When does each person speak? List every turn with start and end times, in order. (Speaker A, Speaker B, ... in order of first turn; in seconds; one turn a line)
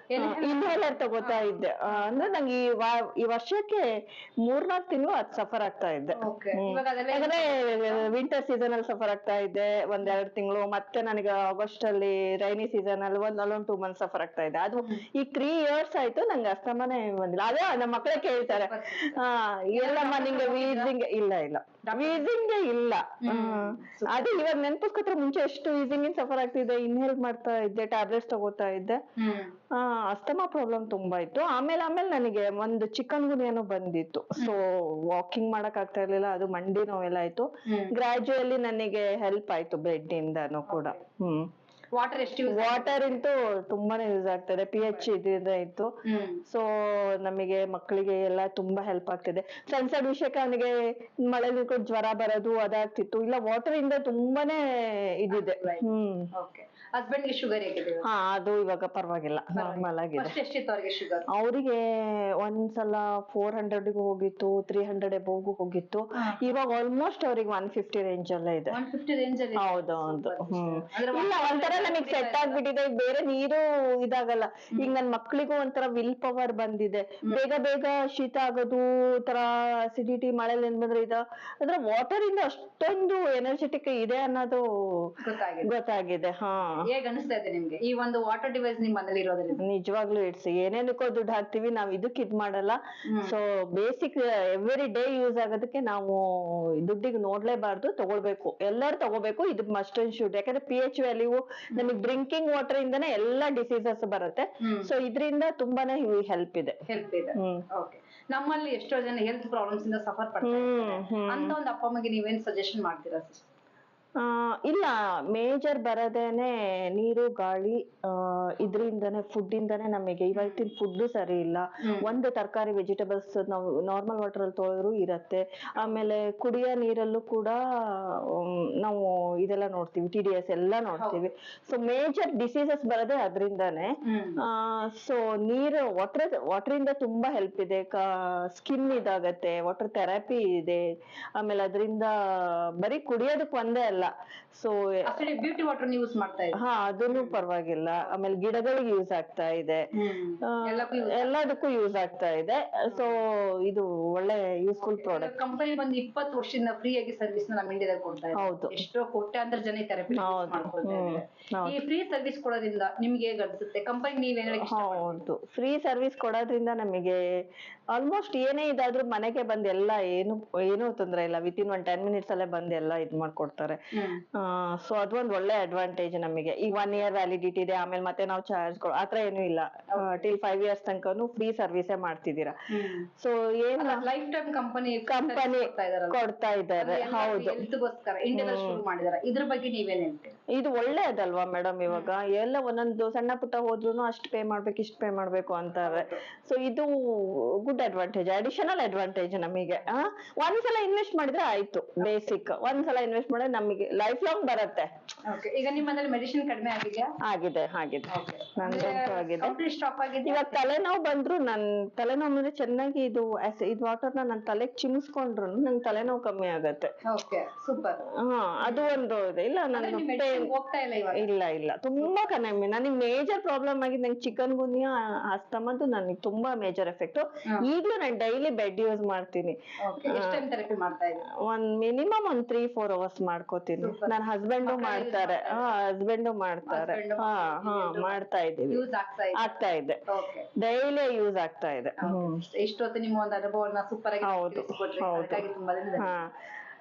Speaker A: 0.1-2.4
Speaker B: 0.2-29.0
Speaker A: 6.2-8.1
Speaker A: 17.9-19.2
Speaker A: 19.7-20.9
Speaker A: 21.8-22.3
Speaker A: 23.2-24.3
Speaker A: 29.2-29.5
Speaker B: 29.7-41.5
Speaker A: 37.7-38.0
Speaker A: 40.7-41.0
Speaker A: 42.0-43.2
Speaker B: 42.5-56.3
Speaker A: 46.0-46.4
Speaker A: 55.3-58.0
Speaker B: 58.0-60.4
Speaker A: 59.5-61.2
Speaker B: 61.3-68.8
Speaker A: 66.2-66.5
Speaker A: 68.7-72.6
Speaker B: 69.6-86.8
Speaker A: 85.2-85.7
Speaker A: 86.7-89.6
Speaker B: 89.6-106.8
Speaker A: 93.1-93.4
Speaker A: 101.7-102.1
Speaker A: 104.6-104.9
Speaker A: 106.9-113.4
Speaker B: 107.4-107.6
Speaker B: 110.4-111.6
Speaker B: 114.2-140.8
Speaker A: 120.3-120.7
Speaker A: 121.8-122.2
Speaker A: 134.0-134.4
Speaker B: 141.4-145.2
Speaker A: 145.1-147.4
Speaker B: 146.6-149.8
Speaker A: 150.0-151.6
Speaker B: 150.5-155.3
Speaker A: 152.9-153.2
Speaker A: 154.8-165.2
Speaker B: 158.4-158.8
Speaker B: 160.1-161.8
Speaker B: 164.5-167.2
Speaker B: 167.9-173.8
Speaker A: 173.9-174.2
Speaker B: 174.3-184.1
Speaker A: 179.9-180.2
Speaker A: 182.7-183.1
Speaker A: 183.8-186.2
Speaker B: 185.1-187.7
Speaker A: 186.8-190.3
Speaker B: 188.3-188.8
Speaker B: 190.5-204.9
Speaker A: 195.8-196.2
Speaker A: 202.0-202.3
Speaker A: 205.2-207.1
Speaker B: 207.2-209.6
Speaker A: 208.1-210.6
Speaker B: 210.2-216.9
Speaker A: 217.1-218.0
Speaker B: 218.1-220.5
Speaker A: 218.6-218.9
Speaker A: 219.7-221.3
Speaker B: 221.1-230.4
Speaker A: 222.0-222.3
Speaker A: 229.8-231.3
Speaker B: 231.3-238.8
Speaker A: 233.8-235.7
Speaker A: 236.6-239.6
Speaker B: 239.4-240.0
Speaker A: 240.1-240.5
Speaker B: 240.6-242.4
Speaker A: 242.0-246.2
Speaker B: 244.2-246.3